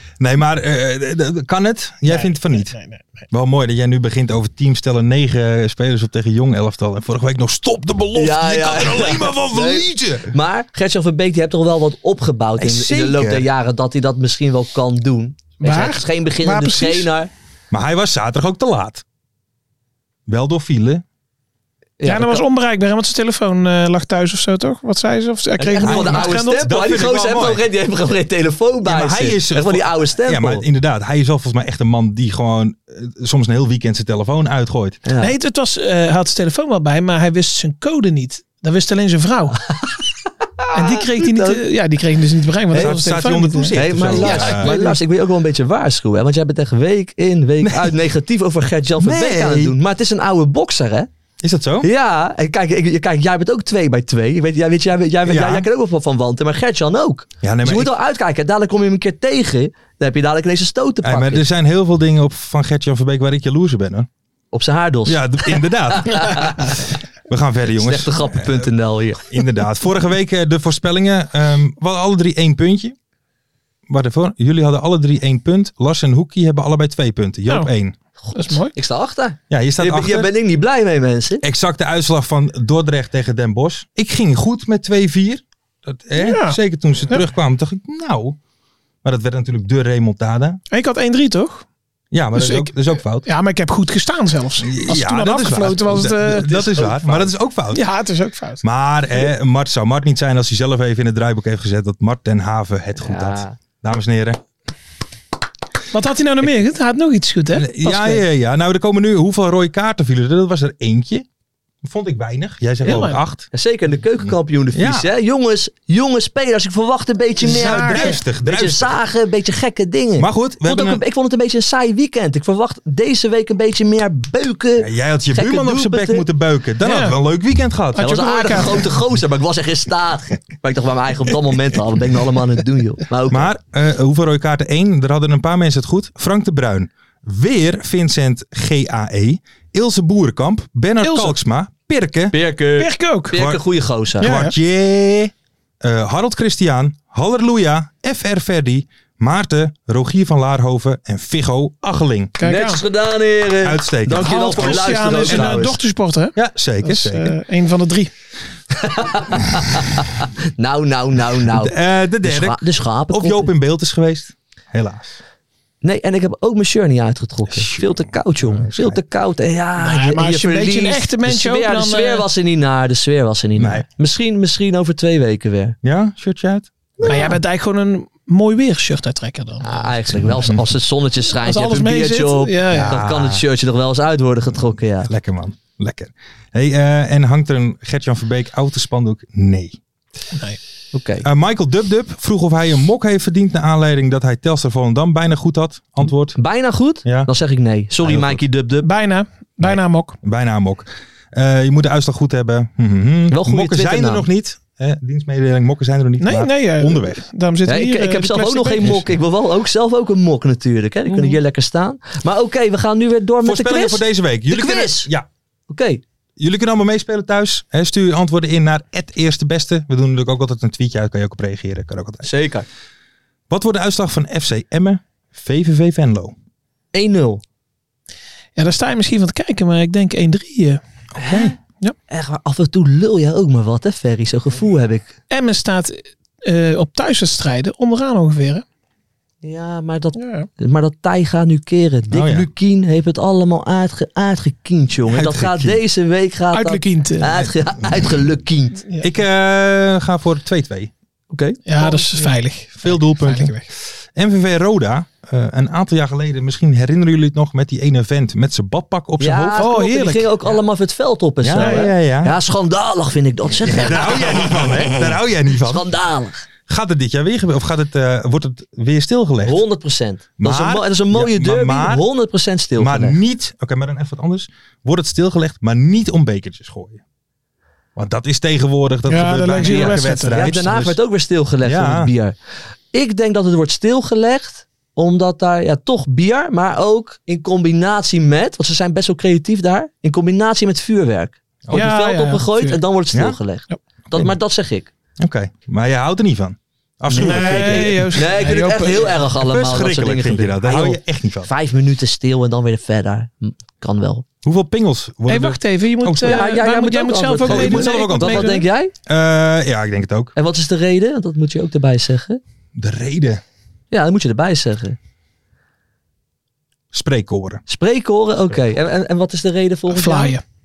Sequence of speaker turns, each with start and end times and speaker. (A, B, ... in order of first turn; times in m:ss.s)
0:00.2-0:02.8 A
0:02.1-0:03.1 B
0:03.3-0:10.3 A
0:08.2-0:17.3 C
0:12.6-0:13.5 A
0:15.6-0:17.1 B
0:17.7-0:19.0 A
0:20.3-0:21.0 A
0:22.0-0:22.4 C
0:22.0-0:26.6 B
0:25.6-0:30.6 C
0:25.8-0:27.6 A
0:28.8-0:35.0 A
0:35.1-0:35.3 C
0:35.2-0:39.6 B
0:40.6-0:41.6 C
0:40.7-0:45.0 B
0:42.7-0:43.0 C
0:42.8-0:44.7 A
0:43.8-0:51.1 C
0:47.6-0:48.0 A
0:49.0-0:49.8 A
0:51.4-0:51.9 A
0:51.8-1:01.5 C
0:55.3-0:55.7 A
0:57.4-0:57.9 A
1:01.0-1:04.1 A
1:04.5-1:06.7 C
1:05.1-1:08.7 A
1:07.7-1:09.3 C
1:09.3-1:13.0 A
1:13.9-1:18.0 A
1:18.2-1:21.4 C
1:18.3-1:18.7 B
1:19.5-1:20.3 A
1:21.4-1:28.4 A
1:26.2-1:27.2 B
1:29.0-1:30.6 A
1:30.7-1:31.7 B
1:32.1-1:33.3 A
1:32.4-1:36.8 B
1:34.6-1:37.8 A
1:36.5-1:37.3 C
1:37.7-1:38.6 B
1:38.6-1:44.4 A
1:43.0-1:43.6 C
1:45.9-1:48.2 B
1:47.5-1:51.3 A
1:51.8-1:53.5 A
1:52.8-1:53.2 B
1:52.8-2:06.2 C
1:54.2-1:55.1 A
1:57.4-1:58.2 B
1:57.4-1:59.0 A
2:00.2-2:01.0 A
2:04.8-2:08.1 A
2:06.8-2:07.2 B
2:08.0-2:08.9 B
2:08.0-2:13.5 C
2:13.3-2:22.4 A
2:21.0-2:21.4 B
2:22.3-2:24.3 C
2:22.8-2:23.4 B
2:23.3-2:23.6 A
2:24.2-2:32.3 A
2:24.2-2:24.6 B
2:32.4-2:32.8 B
2:32.4-2:35.8 C
2:33.6-2:35.7 A
2:34.2-2:38.1 B
2:36.4-2:37.4 A
2:38.7-2:43.5 C
2:41.5-2:45.2 A
2:45.8-2:55.8 C
2:47.5-2:49.0 A
2:49.8-2:52.3 B
2:53.6-2:53.9 A
2:55.8-2:57.4 A
2:57.0-2:57.4 C
2:57.1-3:00.0 B
2:59.6-3:05.1 C
3:01.3-3:03.0 B
3:02.7-3:03.4 A
3:05.0-3:09.8 A
3:10.9-3:11.2 C
3:11.2-3:16.4 A
3:16.4-3:18.9 C
3:17.0-3:17.3 A
3:18.0-3:18.4 A
3:18.8-3:20.2 B
3:19.6-3:27.2 A
3:23.3-3:24.3 C
3:26.2-3:29.0 B
3:27.7-3:35.1 C
3:28.8-3:29.1 A
3:31.1-3:31.4 A
3:33.4-3:35.3 A
3:35.7-3:36.0 C
3:36.4-3:42.3 A
3:42.2-3:42.7 C
3:43.5-3:46.3 A
3:46.9-3:47.4 C
3:48.6-3:50.8 B
3:51.2-3:51.6 A
3:51.2-3:51.6 C
3:52.1-3:55.1 C
3:55.3-3:58.6 B
3:59.4-4:08.8 C
4:00.2-4:00.5 B
4:02.1-4:02.5 A
4:05.1-4:05.8 A
4:06.5-4:07.4 B
4:08.8-4:09.1 B
4:09.0-4:10.9 A
4:11.3-4:12.3 C
4:11.7-4:13.7 B
4:12.8-4:19.6 A
4:19.2-4:24.9 C
4:19.6-4:20.3 B
4:21.4-4:22.3 A
4:21.6-4:21.9 B
4:23.6-4:25.9 A
4:25.6-4:26.5 C
4:26.7-4:29.6 A
4:29.4-4:33.2 C
4:30.4-4:32.0 A
4:32.8-4:37.0 A
4:38.0-4:41.0 A
4:39.1-4:40.4 B
4:39.6-4:42.4 C
4:41.6-4:42.1 A
4:42.9-4:54.9 C
4:51.7-4:52.8 B
4:55.2-4:58.3 A
4:57.1-5:04.2 C
4:57.2-4:59.2 B
4:59.4-5:01.5 A
5:04.4-5:06.5 A
5:05.3-5:08.7 B
5:06.2-5:08.9 C
5:07.4-5:10.3 A
5:10.4-5:12.4 C
5:12.8-5:13.4 A
5:13.9-5:15.0 C
5:16.9-5:17.6 A
5:17.7-5:20.4 C
5:19.9-5:20.4 B